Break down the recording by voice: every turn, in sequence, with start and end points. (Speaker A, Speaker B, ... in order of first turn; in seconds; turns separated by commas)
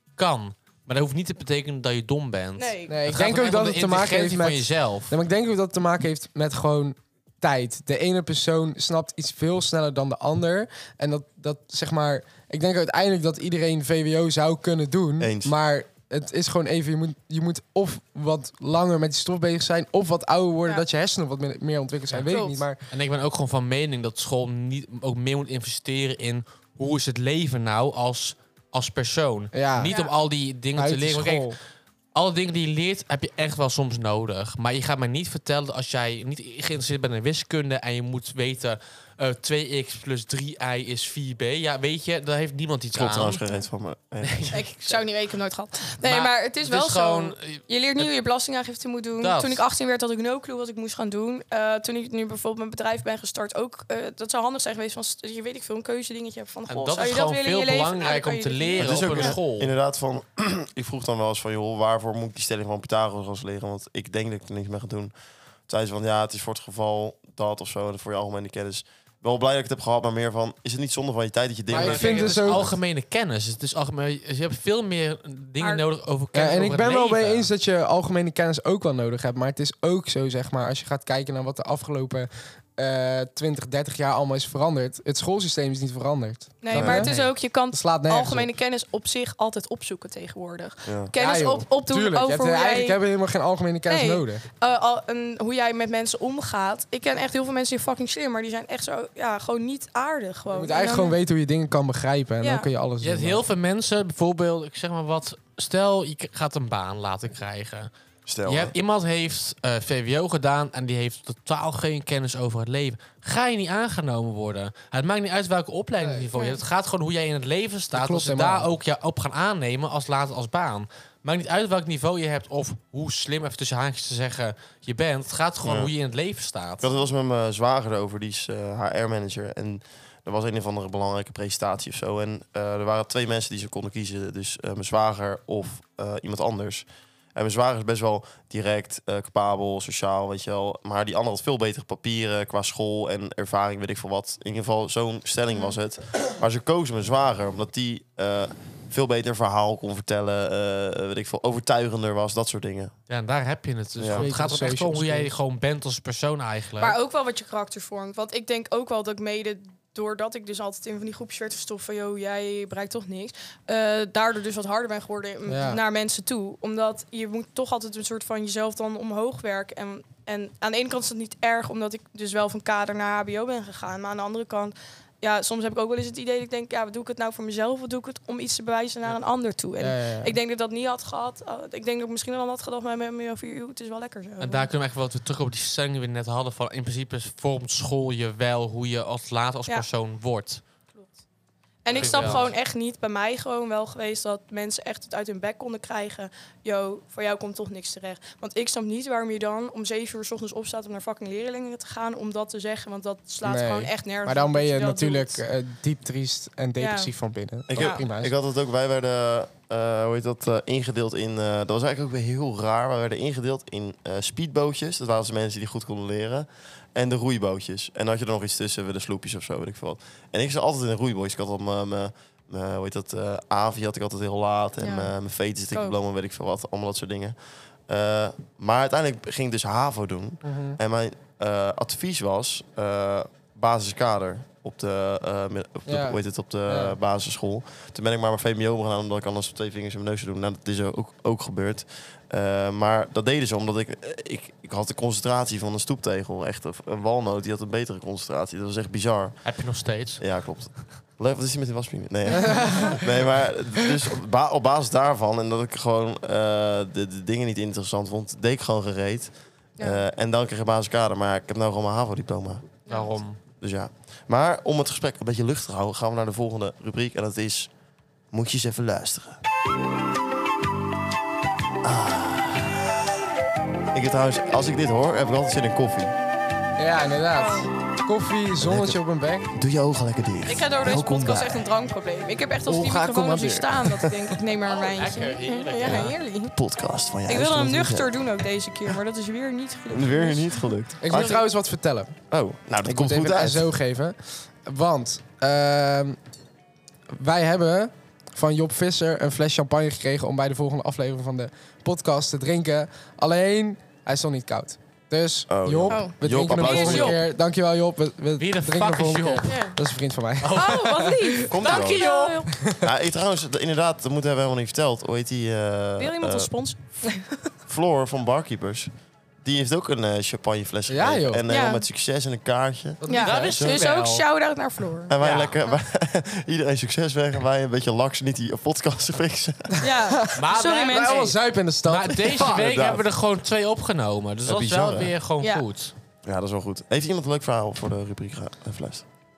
Speaker A: 0.2-5.1, Speaker B: 2.6-3.0, Speaker C: 2.9-22.8, Speaker D: 15.2-15.6, Speaker B: 22.3-22.6, Speaker A: 22.9-31.5, Speaker C: 29.5-29.9, Speaker B: 29.9-30.1, Speaker C: 30.8-31.6, Speaker A: 32.1-43.4, Speaker D: 42.9-44.6, Speaker A: 44.2-45.0, Speaker B: 44.5-59.4, Speaker A: 46.0-48.1, Speaker A: 49.2-49.6, Speaker A: 56.7-59.7, Speaker D: 58.8-65.1, Speaker D: 65.7-72.7, Speaker A: 71.7-77.5, Speaker C: 71.7-72.7, Speaker C: 76.3-88.5, Speaker B: 86.6-93.0, Speaker D: 86.7-87.1, Speaker D: 90.8-91.1, Speaker C: 91.2-94.4, Speaker B: 93.9-101.2, Speaker C: 100.5-103.4, Speaker B: 102.4-102.7, Speaker A: 103.0-107.9, Speaker D: 108.3-108.8, Speaker A: 108.5-126.9, Speaker C: 116.0-116.3, Speaker B: 116.3-116.6, Speaker C: 117.9-118.7, Speaker D: 125.6-125.9, Speaker D: 126.8-152.9, Speaker A: 153.1-157.0, Speaker D: 154.0-154.3, Speaker C: 154.1-155.3, Speaker B: 156.8-184.7, Speaker C: 165.5-165.8, Speaker C: 179.8-180.3, Speaker A: 184.4-190.6, Speaker B: 191.8-205.4, Speaker A: 191.9-192.5, Speaker C: 203.4-208.3, Speaker B: 206.8-207.1, Speaker D: 207.7-227.4, Speaker B: 207.7-208.0, Speaker B: 224.8-225.1, Speaker D: 227.9-249.4, Speaker C: 230.4-230.8, Speaker C: 235.9-237.0, Speaker A: 249.4-250.2, Speaker D: 250.2-262.7, Speaker C: 252.4-253.0, Speaker B: 262.9-263.2, Speaker A: 262.9-263.4, Speaker D: 263.6-267.7, Speaker D: 268.3-269.4, Speaker D: 271.8-272.9, Speaker D: 273.9-276.1, Speaker C: 276.8-279.5, Speaker B: 277.3-277.7, Speaker D: 278.6-279.0, Speaker D: 279.5-281.6, Speaker B: 280.5-286.5, Speaker D: 282.7-284.1, Speaker A: 284.7-286.2, Speaker D: 285.8-288.1, Speaker B: 287.3-290.7, Speaker D: 289.9-291.4, Speaker C: 291.0-292.1, Speaker D: 292.3-293.7, Speaker C: 292.9-296.2, Speaker C: 297.1-311.3, Speaker D: 305.5-307.2, Speaker B: 305.9-307.2, Speaker A: 308.4-309.6, Speaker B: 309.4-309.8, Speaker A: 310.4-311.0, Speaker B: 310.5-312.5, Speaker D: 311.5-312.1, Speaker A: 311.6-312.4, Speaker D: 312.8-316.5, Speaker B: 316.0-317.5, Speaker D: 317.7-318.9, Speaker D: 319.4-323.8, Speaker C: 320.9-321.4, Speaker B: 321.5-321.8, Speaker C: 323.0-323.4, Speaker B: 323.1-325.1, Speaker A: 323.1-324.2, Speaker D: 325.1-329.8, Speaker A: 325.2-325.6, Speaker B: 329.8-331.4, Speaker C: 330.1-332.6, Speaker A: 330.4-335.9, Speaker D: 332.3-333.1, Speaker D: 334.4-335.1, Speaker D: 336.2-339.1